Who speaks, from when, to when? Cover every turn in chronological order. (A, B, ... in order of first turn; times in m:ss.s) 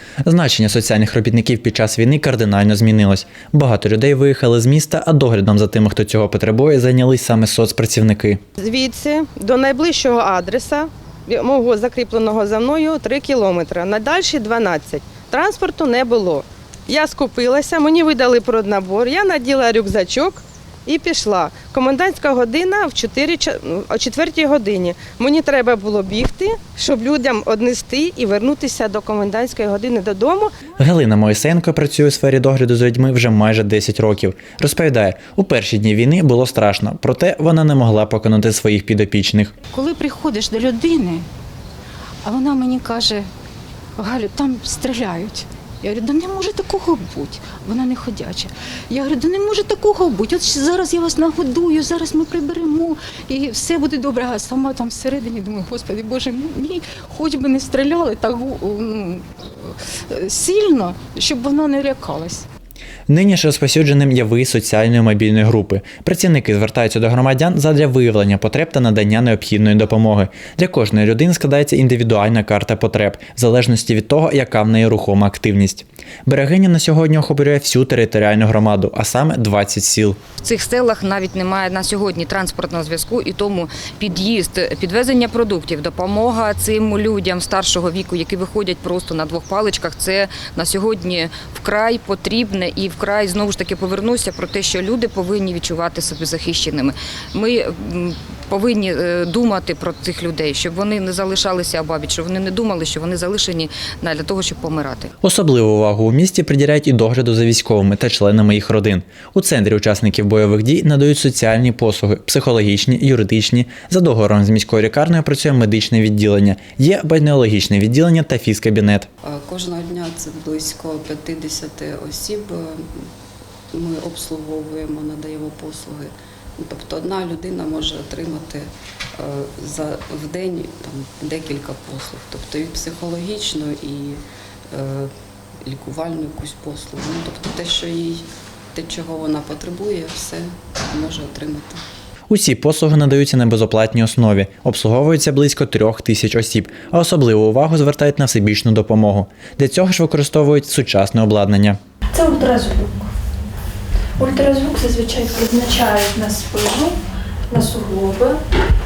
0:00.2-0:08.4 A
0:08.6-0:30.5 B
0:30.8-0:39.5 A
0:39.7-0:41.2 C
0:42.2-0:43.3 C
0:44.0-0:59.2 C
1:00.1-1:02.4 C
1:03.1-1:20.2 A
1:20.4-1:45.1 D
1:45.2-1:59.1 A
1:59.2-2:02.8 E
2:03.7-2:08.6 E
2:09.2-2:14.2 E
2:14.7-2:15.1 E
2:15.6-2:21.8 E
2:22.3-2:31.8 A
2:32.1-2:33.1 F
2:34.2-2:37.0 F
2:37.5-2:38.4 F